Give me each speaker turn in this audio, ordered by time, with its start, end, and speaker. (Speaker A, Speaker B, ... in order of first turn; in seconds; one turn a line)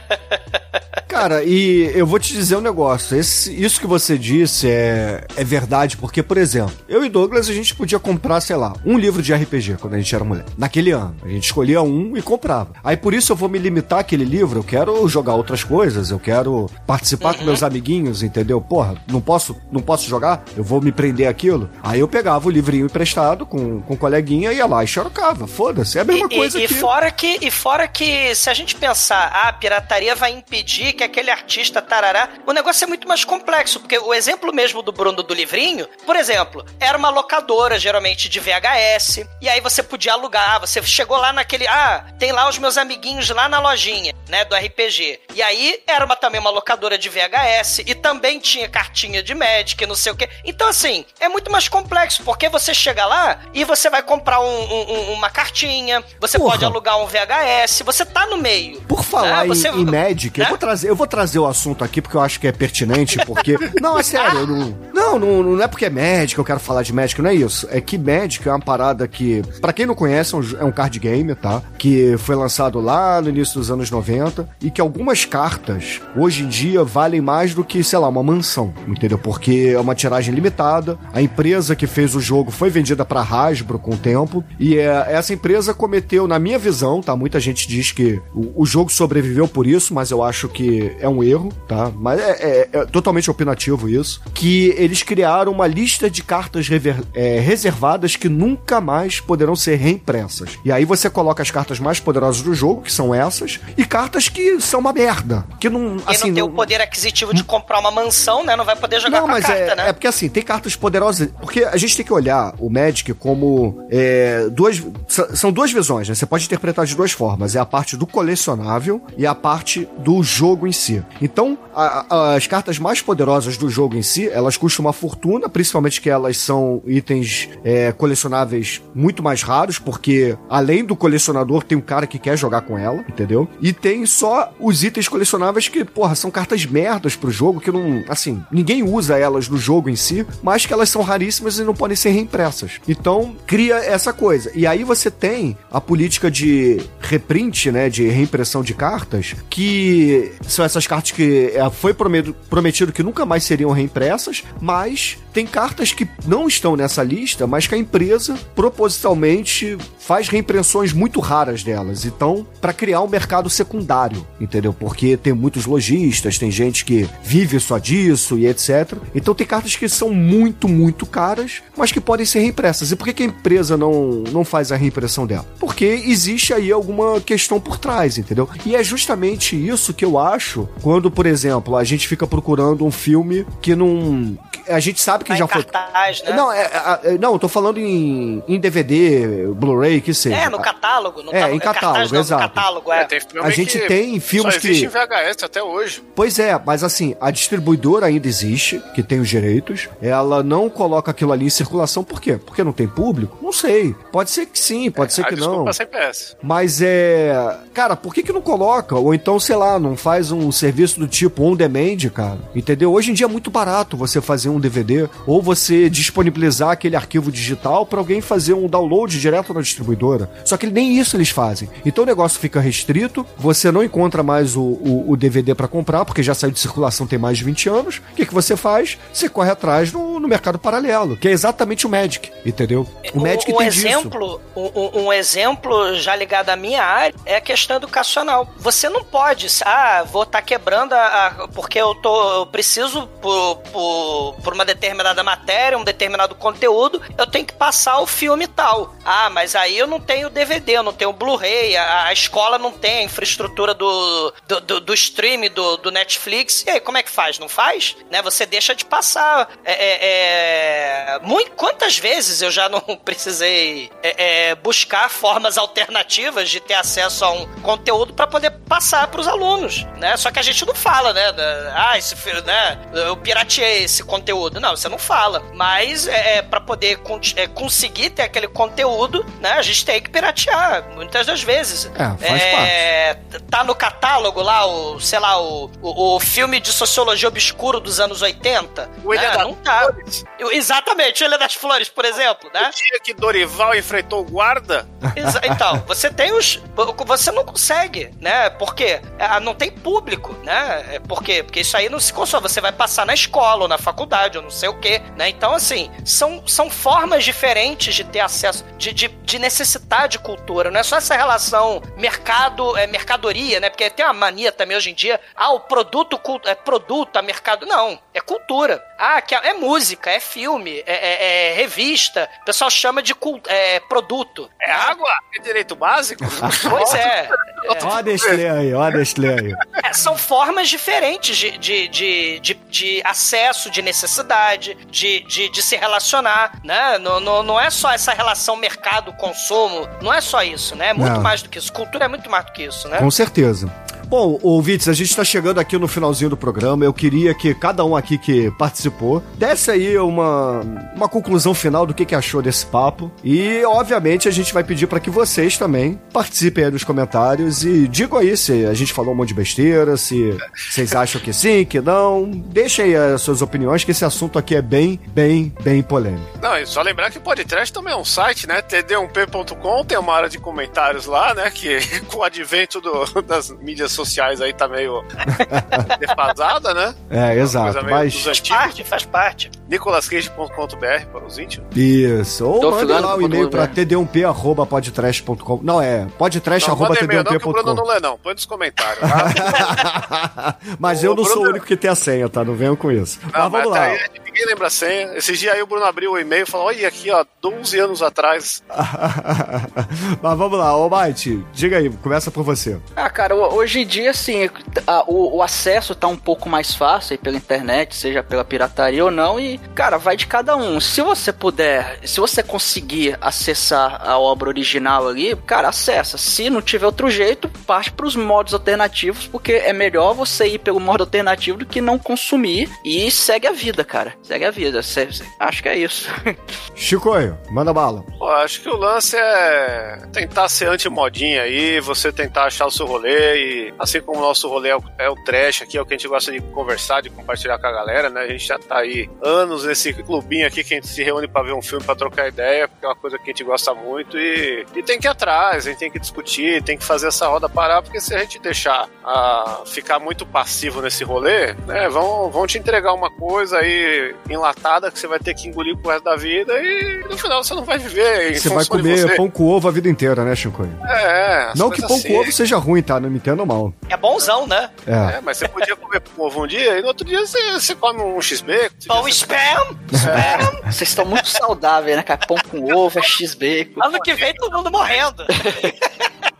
Speaker A: 1.1-26.9
Speaker B: 17.2-17.6
Speaker B: 26.1-60.6
Speaker A: 56.3-56.8
Speaker A: 58.9-106.7
Speaker B: 64.1-64.5
Speaker B: 106.1-109.9
Speaker A: 109.0-185.7
Speaker B: 185.3-186.4
Speaker A: 186.3-190.7
Speaker B: 190.3-193.1
Speaker A: 191.3-192.7
Speaker C: 192.9-196.0
Speaker A: 193.4-194.9
Speaker A: 196.2-205.8
Speaker C: 204.9-206.3
Speaker A: 206.4-234.2
Speaker B: 233.1-292.7
Speaker A: 281.9-282.9
Speaker C: 289.0-290.2
Speaker C: 292.6-294.9
Speaker A: 295.0-295.8
Speaker B: 295.1-324.9
Speaker C: 324.6-328.4
Speaker A: 326.4-327.0
Speaker B: 326.7-327.9
Speaker A: 327.8-329.6
Speaker B: 329.8-343.1
Speaker A: 340.9-341.3
Speaker A: 342.9-366.3
Speaker C: 366.4-378.8
Speaker A: 375.3-375.9
Speaker A: 377.1-378.3
Speaker B: 378.3-379.5
Speaker C: 379.7-381.7
Speaker A: 381.7-387.8
Speaker D: 382.6-383.8
Speaker C: 386.6-389.7
Speaker A: 389.0-394.0
Speaker C: 390.9-391.6
Speaker C: 393.3-398.6
Speaker A: 398.7-402.8
Speaker D: 403.0-426.4
Speaker A: 426.8-428.1
Speaker C: 428.2-459.2
Speaker A: 458.3-460.8
Speaker C: 460.8-462.3
Speaker A: 461.5-463.7
Speaker B: 463.9-464.7
Speaker A: 464.9-465.2
Speaker C: 465.0-469.4
Speaker B: 468.9-470.6
Speaker A: 469.9-470.5
Speaker C: 469.9-470.5
Speaker D: 470.6-473.9
Speaker B: 473.8-475.9
Speaker C: 474.0-475.0
Speaker D: 475.4-475.7